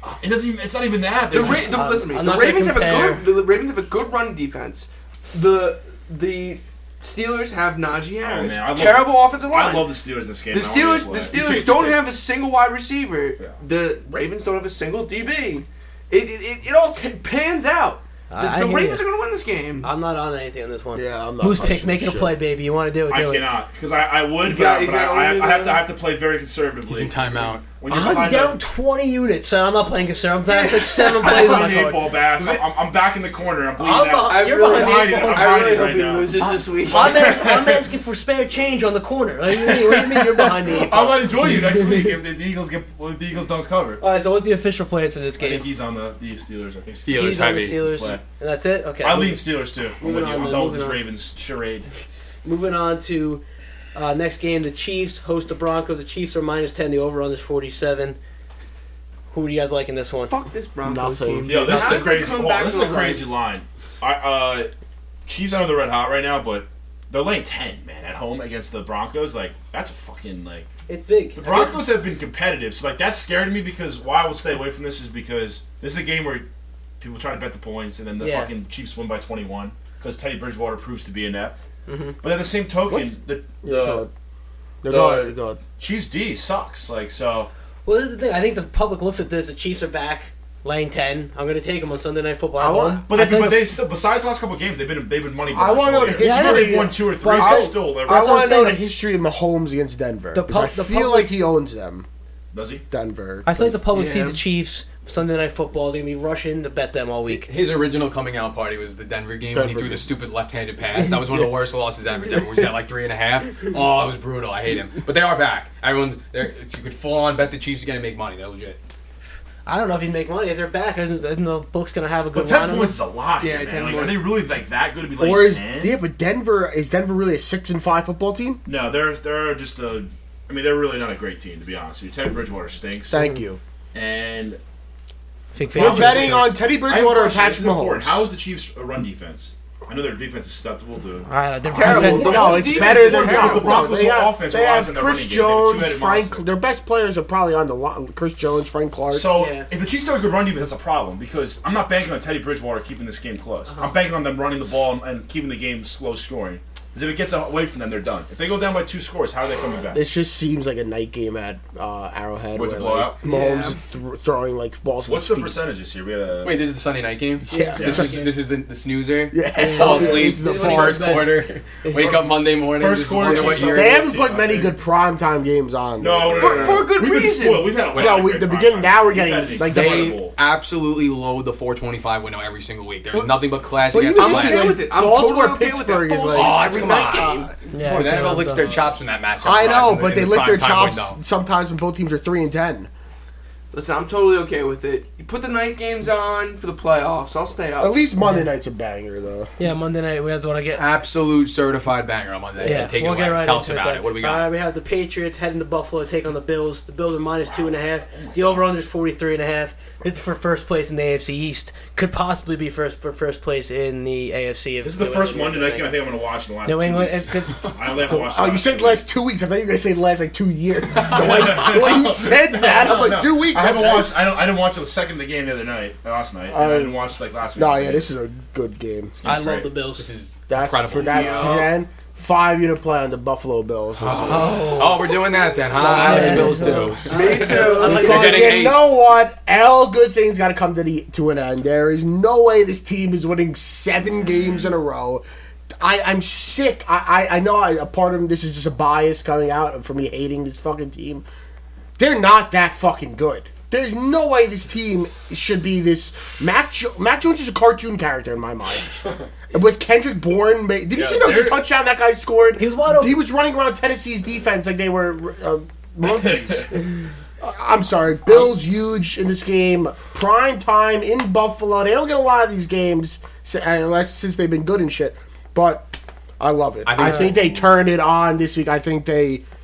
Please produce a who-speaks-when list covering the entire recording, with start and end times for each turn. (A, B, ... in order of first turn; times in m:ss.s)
0:00.2-0:01.8 A
0:01.3-0:09.9 B
0:01.3-0:03.3 C
0:08.2-0:12.0 A
0:10.5-0:19.9 B
0:18.3-0:19.0 C
0:19.8-0:23.4 C
0:21.0-0:22.4 D
0:23.1-0:28.6 A
0:24.4-0:25.8 B
0:26.8-0:27.7 E
0:27.9-0:32.1 C
0:30.6-0:31.9 B
0:30.6-0:37.8 A
0:33.8-0:35.8 C
0:34.3-0:37.5 B
0:36.4-0:42.1 C
0:39.5-0:44.0 A
0:44.0-0:45.6 C
0:45.4-0:48.2 A
0:47.0-0:47.9 E
0:47.1-0:49.5 C
0:49.0-0:51.9 A
0:50.0-0:51.0 C
0:52.4-0:53.4 C
0:54.0-0:58.2 C
0:59.3-1:00.3 C
1:00.3-1:03.2 B
1:00.8-1:02.1 D
1:01.5-1:04.7 A
1:05.3-1:10.7 A
1:10.9-1:11.8 C
1:11.4-1:16.5 A
1:17.0-1:21.6 A
1:18.2-1:18.5 C
1:21.9-1:22.2 C
1:22.2-1:24.0 A
1:23.6-1:24.1 D
1:24.8-1:25.6 D
1:24.9-1:27.5 A
1:27.9-1:33.6 C
1:32.6-1:33.6 D
1:33.1-1:38.3 A
1:35.5-1:42.1 D
1:36.2-1:38.8 C
1:40.3-1:41.4 C
1:42.5-1:42.8 A
1:42.9-1:43.8 D
1:43.5-1:47.5 C
1:43.9-1:44.4 B
1:47.3-1:58.8 E
1:49.5-1:50.1 D
1:59.7-2:03.0 C
2:02.4-2:06.0 A
2:03.4-2:04.4 B
2:05.2-2:08.6 D
2:08.6-2:13.2 A
2:13.1-2:13.6 D
2:13.2-2:13.4 C
2:13.9-2:14.6 A
2:15.5-2:16.5 C
2:15.6-2:26.4 A
2:15.8-2:18.3 D
2:21.3-2:22.5 C
2:21.7-2:23.9 B
2:21.8-2:29.3 D
2:29.1-2:40.0 A
2:29.4-2:29.7 C
2:33.7-2:34.0 C
2:39.9-2:45.6 D
2:42.6-2:43.2 A
2:43.2-2:43.8 B
2:45.1-2:46.7 A
2:46.4-2:54.2 E
2:47.5-2:48.2 D
2:47.5-2:48.3 C
2:47.8-2:48.2 A
2:49.3-2:51.3 D
2:49.6-2:52.1 C
2:51.9-2:54.7 A
2:53.2-2:56.9 D
2:56.0-3:00.4 A
2:56.3-2:57.8 B
2:57.9-2:58.3 E
2:57.9-3:00.2 D
2:59.6-3:04.8 E
3:03.1-3:03.4 B
3:03.9-3:08.5 D
3:04.2-3:07.5 B
3:06.3-3:11.2 E
3:07.7-3:08.8 C
3:09.4-3:12.9 D
3:13.7-3:18.0 B
3:17.8-3:19.5 D
3:18.2-3:18.5 C
3:19.6-3:20.8 C
3:20.7-3:24.4 E
3:22.6-3:36.0 C
3:27.5-3:28.7 A
3:34.8-3:39.0 A
3:36.7-3:37.8 C
3:38.1-3:44.2 D
3:40.9-3:41.9 E
3:40.9-3:48.1 A
3:46.5-3:47.0 D
3:47.6-3:49.2 D
3:49.2-3:49.7 A
3:49.2-3:50.1 C
3:50.0-3:51.6 E
3:50.5-3:54.7 D
3:51.0-3:51.7 B
3:54.0-3:58.9 E
3:54.3-3:55.1 C
3:55.7-3:57.0 D
3:55.7-3:58.6 C
3:57.0-3:58.2 B
3:57.8-4:05.2 D
4:04.1-4:04.7 A
4:05.8-4:11.2 D
4:12.0-4:26.8 D
4:21.0-4:21.6 A
4:22.6-4:23.2 C
4:26.1-4:26.7 A
4:27.4-4:39.4 D
4:36.8-4:37.6 E
4:37.0-4:37.4 C